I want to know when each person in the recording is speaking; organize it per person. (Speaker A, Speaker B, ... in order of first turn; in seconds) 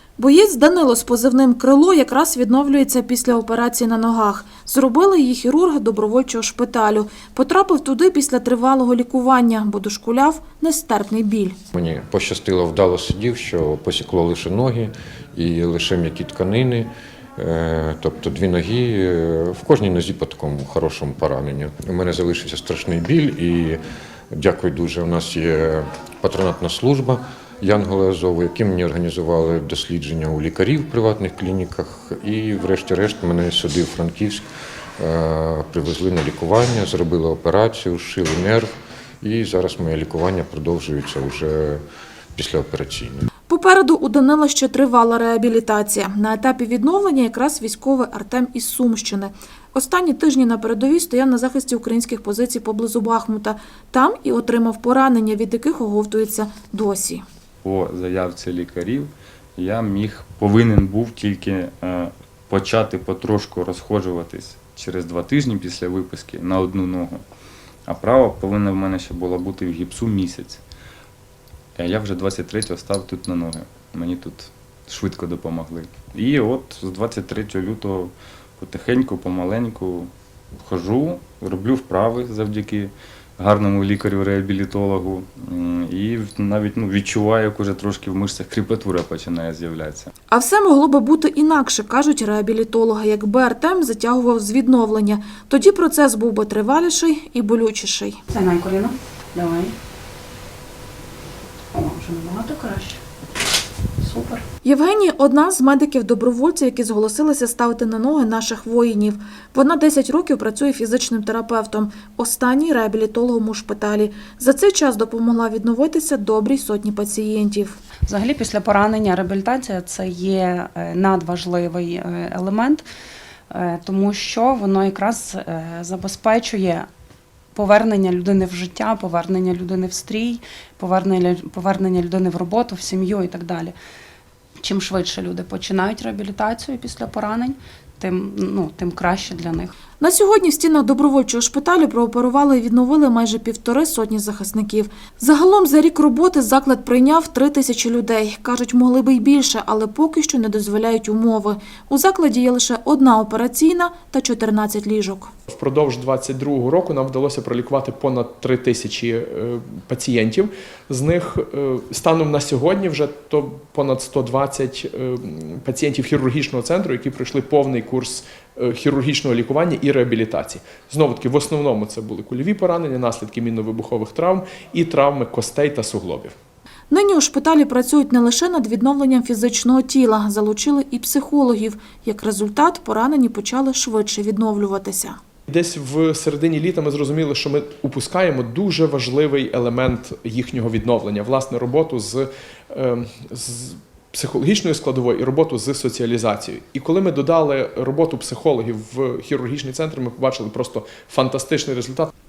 Speaker A: 0.2-11.6, 43.5-57.2, 90.3-98.2, 104.6-117.8, 140.0-155.3, 176.9-185.2
Speaker B: 11.7-23.8, 24.3-34.4, 35.0-38.7, 39.2-41.8, 42.4-43.3
Speaker C: 57.6-67.2, 67.9-70.6, 71.8-80.1, 80.6-90.1
Speaker D: 98.3-99.7, 101.7-103.0, 104.0-104.4, 118.1-122.9, 123.5-126.9, 127.5-133.7, 134.6-139.7
Speaker E: 155.5-176.3, 185.5-202.1